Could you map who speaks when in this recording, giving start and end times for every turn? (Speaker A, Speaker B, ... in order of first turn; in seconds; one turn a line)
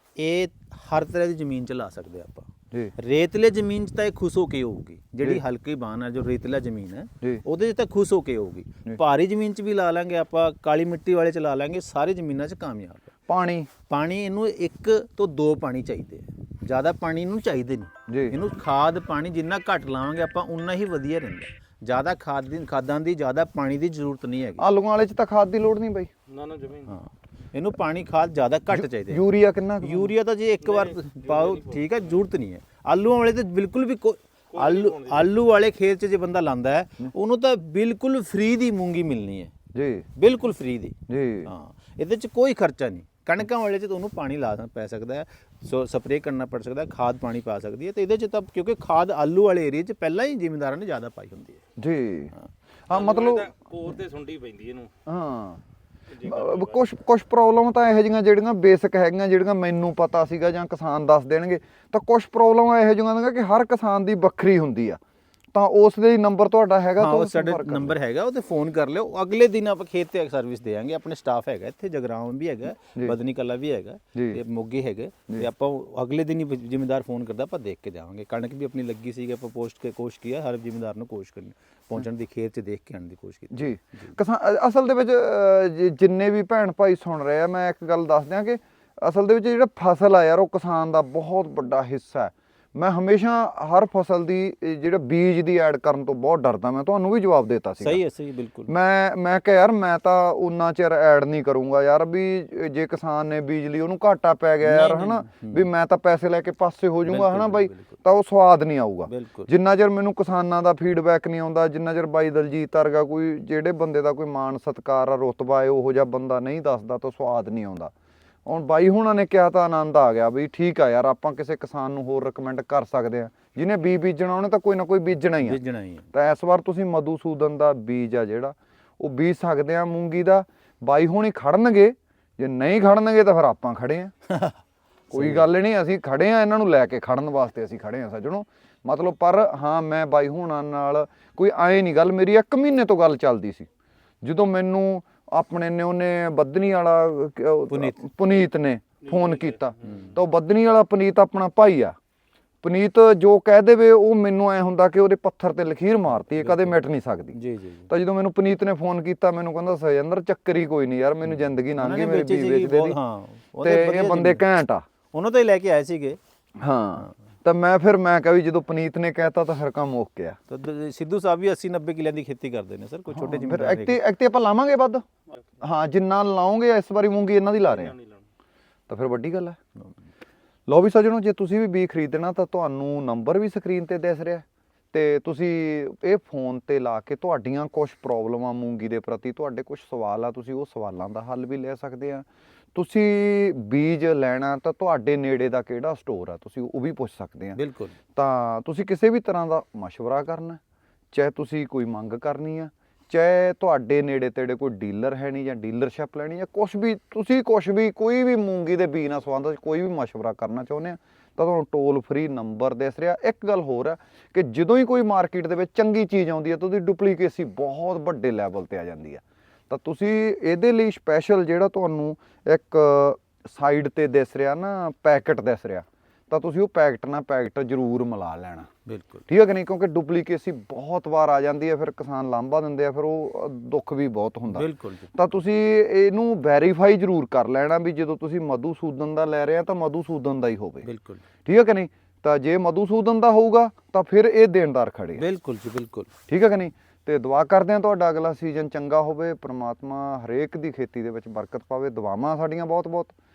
Speaker A: 0.2-13.1
Speaker B: 13.3-13.7
Speaker A: 13.9-24.6
Speaker B: 18.1-18.3
Speaker B: 24.6-26.1
Speaker C: 26.3-26.9
Speaker A: 26.8-29.2
Speaker B: 28.7-30.1
Speaker A: 29.8-39.5
Speaker C: 30.6-31.8
Speaker C: 34.5-35.2
Speaker B: 39.7-40.0
Speaker A: 40.1-51.6
Speaker B: 41.1-41.5
Speaker B: 51.8-52.3
Speaker B: 52.9-53.5
Speaker C: 52.9-54.9
Speaker B: 55.1-55.6
Speaker C: 56.1-56.8
Speaker B: 56.2-65.0
Speaker B: 65.5-68.0
Speaker A: 67.0-84.2
Speaker B: 83.5-98.0
Speaker A: 97.8-98.7
Speaker B: 98.7-117.9
Speaker A: 104.6-105.7
Speaker A: 107.0-108.0
Speaker A: 109.1-109.5
Speaker B: 118.5-125.6
Speaker A: 125.4-126.1
Speaker B: 126.1-134.1
Speaker A: 134.3-134.6
Speaker A: 135.1-135.5
Speaker B: 135.1-143.7
Speaker B: 144.2-151.9
Speaker A: 147.7-148.0
Speaker C: 149.1-149.6
Speaker A: 149.8-150.2
Speaker B: 152.6-157.3
Speaker A: 156.1-156.8
Speaker A: 157.3-157.9
Speaker B: 157.9-162.9
Speaker A: 161.3-164.4
Speaker B: 163.6-164.8
Speaker A: 165.1-166.2
Speaker B: 166.6-170.4
Speaker A: 170.5-174.0
Speaker B: 173.1-175.0
Speaker B: 175.6-177.9
Speaker C: 177.7-178.2
Speaker B: 178.9-179.6
Speaker B: 180.7-197.6
Speaker A: 197.5-197.9
Speaker B: 198.1-200.6
Speaker B: 201.1-228.7
Speaker A: 228.9-229.2
Speaker B: 229.3-240.8
Speaker A: 234.5-235.1
Speaker A: 240.8-241.2
Speaker B: 241.4-245.2
Speaker A: 245.2-246.1
Speaker B: 246.3-253.1